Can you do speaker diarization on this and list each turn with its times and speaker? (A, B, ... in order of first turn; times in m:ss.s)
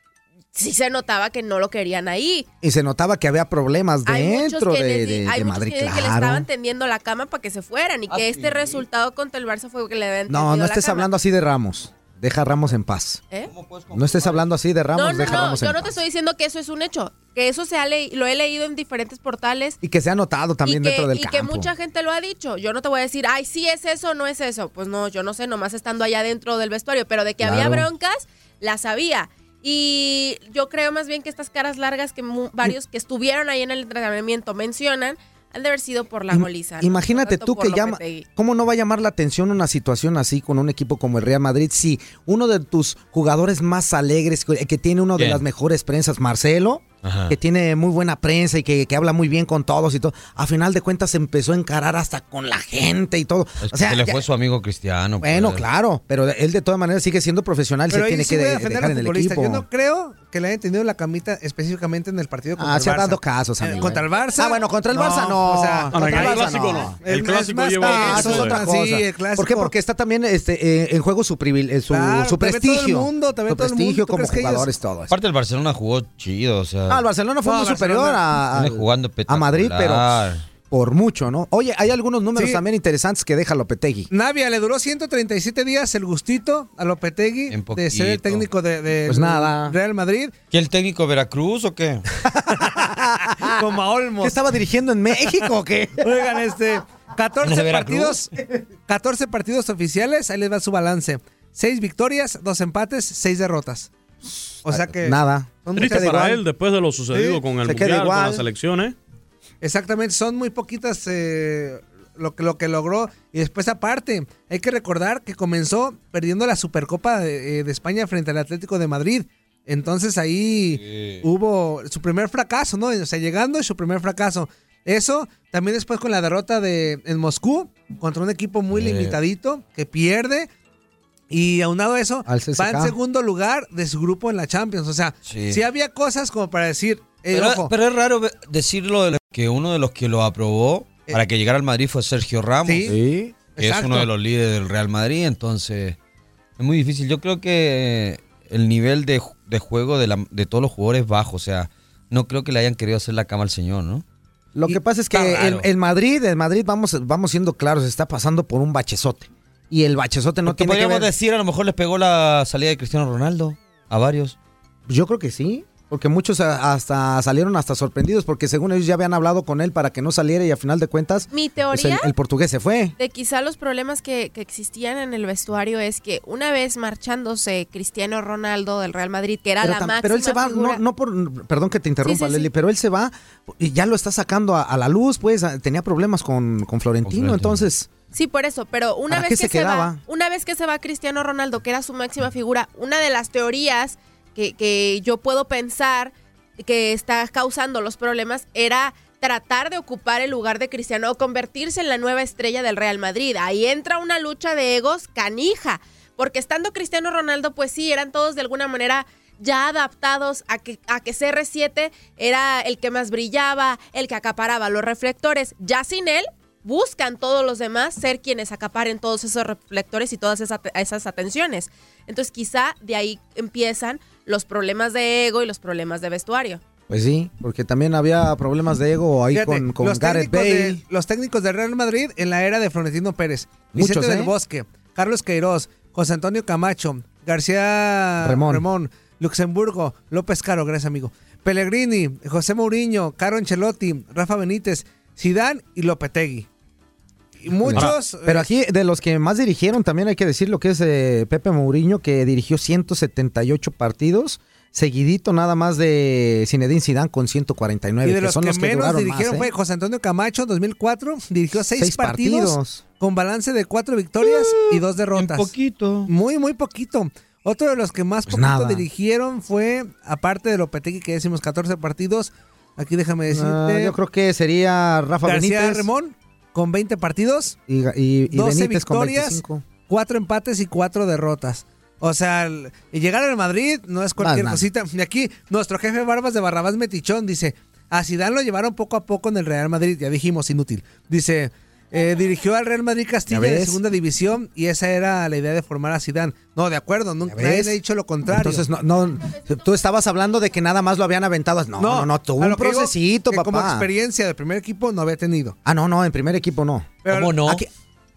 0:00.5-0:02.5 A
0:02.6-0:06.5 B
0:04.1-0:11.1 A
0:08.1-0:08.9 C
0:10.3-0:13.2 B
0:13.5-0:14.5 C
0:13.9-0:16.0 B
0:14.9-0:19.8 A
0:15.3-0:15.5 C
0:19.8-0:21.7 B
0:20.6-0:38.3 A
0:27.4-0:27.9 B
0:36.3-0:54.2 B
0:45.2-0:45.4 C
0:47.0-0:47.4 C
0:53.6-0:55.6 C
0:55.2-0:59.6 B
0:57.9-1:09.7 D
1:02.6-1:07.0 B
1:05.9-1:08.6 E
1:07.8-1:15.1 B
1:11.9-1:14.7 D
1:15.1-1:17.0 C
1:16.9-1:24.1 B
1:17.4-1:18.2 D
1:18.6-1:20.5 C
1:22.4-1:22.6 D
1:24.1-1:30.3 D
1:27.5-1:28.5 C
1:29.1-1:29.8 B
1:30.5-1:32.0 C
1:32.5-1:33.5 B
1:33.4-1:34.4 D
1:34.2-1:36.1 B
1:36.0-1:38.3 D
1:37.4-1:38.2 C
1:38.9-1:43.9 D
1:44.6-1:45.2 D
1:44.7-1:46.4 B
1:45.8-1:49.0 E
1:45.8-1:46.2 D
1:47.1-1:48.4 B
1:49.6-2:10.5 D
2:00.7-2:01.2 C
2:08.7-2:09.2 C
2:11.3-2:17.7 D
2:12.3-2:13.0 B
2:15.2-2:15.6 C
2:17.3-2:26.0 C
2:22.6-2:23.0 D
2:23.5-2:24.1 D
2:26.6-2:34.0 C
2:34.6-2:41.1 B
2:35.1-2:35.7 C
2:40.5-2:44.4 C
2:44.9-2:52.9 B
2:51.3-2:52.1 A
2:53.0-3:00.8 A
2:59.6-3:07.9 B
3:02.0-3:02.5 A
3:07.0-3:07.6 C
3:08.1-3:46.6 A
3:09.1-3:10.0 B
3:46.9-3:50.8 B
3:49.3-4:06.5 D
3:53.7-3:54.3 B
3:58.2-3:58.6 B
4:07.4-4:08.5 D
4:07.6-4:19.5 B
4:07.7-4:08.0 E
4:18.0-4:25.5 D
4:21.8-4:22.8 B
4:24.2-4:26.1 C
4:26.1-4:33.9 D
4:28.3-4:28.8 B
4:33.3-4:35.9 B
4:35.2-4:37.6 D
4:37.7-4:39.7 B
4:38.3-4:58.7 D
4:44.2-4:44.6 B
4:53.3-4:53.8 B
4:57.3-4:57.8 B
4:58.3-5:03.9 B
5:01.8-5:05.6 D
5:05.7-5:07.7 B
5:07.1-5:07.4 D
5:07.1-5:07.6 C